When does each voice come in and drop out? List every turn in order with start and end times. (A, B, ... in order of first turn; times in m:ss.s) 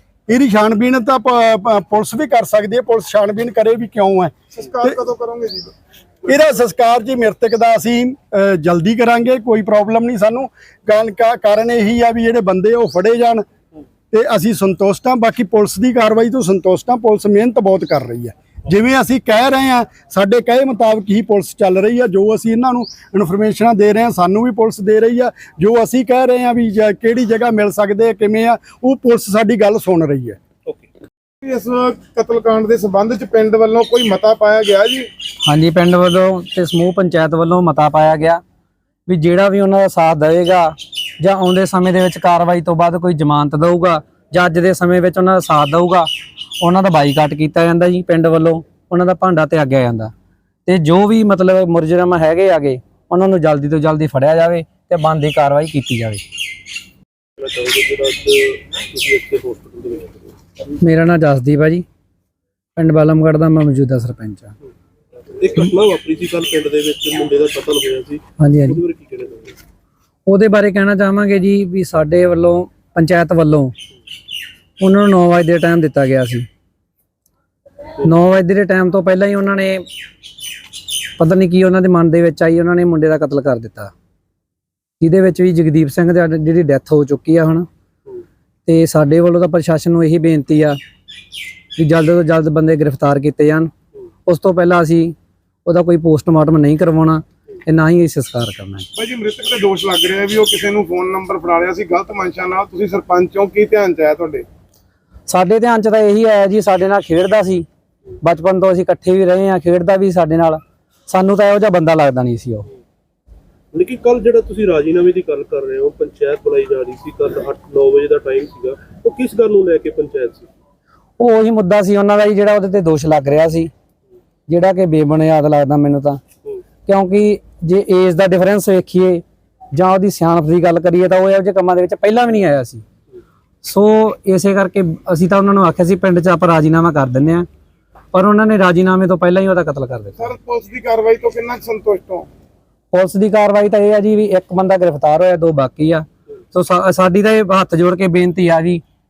0:00.3-0:05.0 A
0:04.5-0:05.7 B
0:06.2-0:13.4 A
0:14.1-0:30.4 A
0:31.4-0:35.0 B
0:35.4-0:38.4 C
0:39.1-0:46.1 C
0:46.6-0:50.1 C
0:50.6-0:56.2 C
0:57.4-1:00.3 D
1:00.8-1:01.8 C
1:02.8-1:04.5 C
1:05.4-1:09.6 D
1:08.4-1:08.8 C
1:10.3-1:13.7 C
1:14.8-1:16.4 C
1:18.0-1:19.8 C
1:21.2-1:23.9 C
1:25.0-1:27.6 C
1:28.6-1:30.8 C
1:31.8-1:33.7 C
1:34.2-1:38.9 C
1:38.9-1:44.4 B
1:45.3-1:47.7 C
1:48.2-1:52.6 C
1:53.7-2:00.5 D
2:01.2-2:03.7 C
2:04.5-2:06.2 C
2:06.8-2:12.8 C
2:13.6-2:17.4 C
2:18.1-2:20.3 C
2:20.2-2:22.3 B
2:22.9-2:28.8 C